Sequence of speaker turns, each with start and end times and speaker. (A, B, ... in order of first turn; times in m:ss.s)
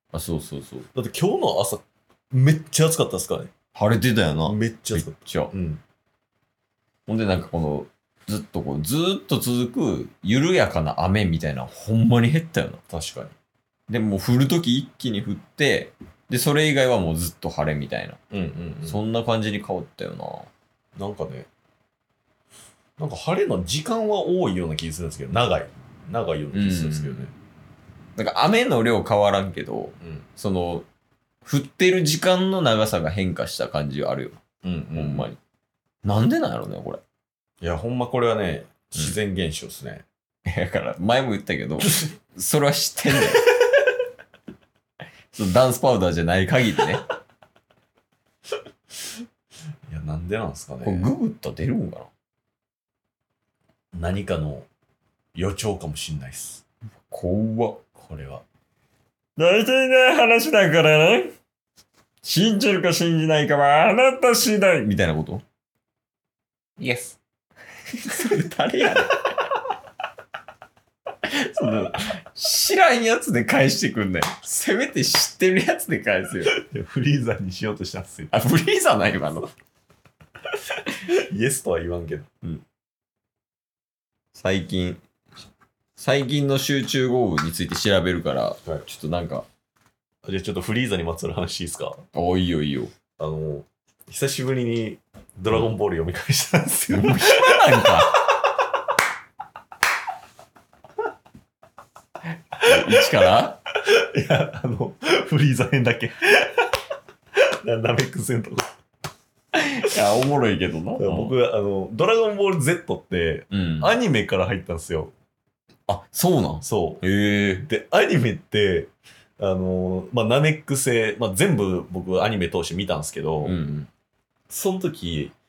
0:00.1-0:00.9 A
0:00.9-0:03.5 B
0:03.7-0:05.5 A
0:04.4-0:05.8 B
0:07.1-0:12.8 A
0:12.9-0:13.3 B
0:13.9-0:18.2 A
0:18.3-0:19.0 B
0:18.8-0:20.5 A
0:21.0-0:21.5 B
0:23.0-0:27.3 B
0:26.5-0:27.3 A
0:28.2-0:30.8 A
0:31.4-0:34.4 A
0:34.6-0:35.3 B
0:35.0-0:35.4 A
0:36.0-0:37.0 A
0:37.6-0:40.0 B
0:40.5-0:43.4 A
0:41.8-0:42.1 B
0:45.3-0:47.0 A
0:49.9-0:51.1 B
0:50.8-0:52.1 A
0:53.9-0:54.7 B
0:55.4-0:56.6 B
0:57.1-0:57.8 A
0:58.0-0:58.4 B
0:59.4-1:01.3 A
1:02.2-1:05.4 A
1:06.8-1:07.1 B
1:08.0-1:09.2 A
1:11.2-1:16.6 A
1:16.5-1:18.3 B
1:18.3-1:19.5 A
1:21.1-1:22.3 B
1:24.3-1:25.0 A
1:26.0-1:29.4 A
1:30.2-1:32.0 B
1:32.1-1:32.9 A
1:33.2-1:38.2 B
1:36.9-1:38.2 A
1:42.6-1:46.8 B
1:42.6-1:43.6 A
1:47.6-1:48.7 B
1:49.5-1:51.3 A
1:51.0-1:55.1 B
1:53.5-1:53.9 A
1:55.9-1:57.6 A
1:56.6-1:57.0 B
1:57.6-2:03.6 B
2:03.4-2:03.9 A
2:04.5-2:05.3 B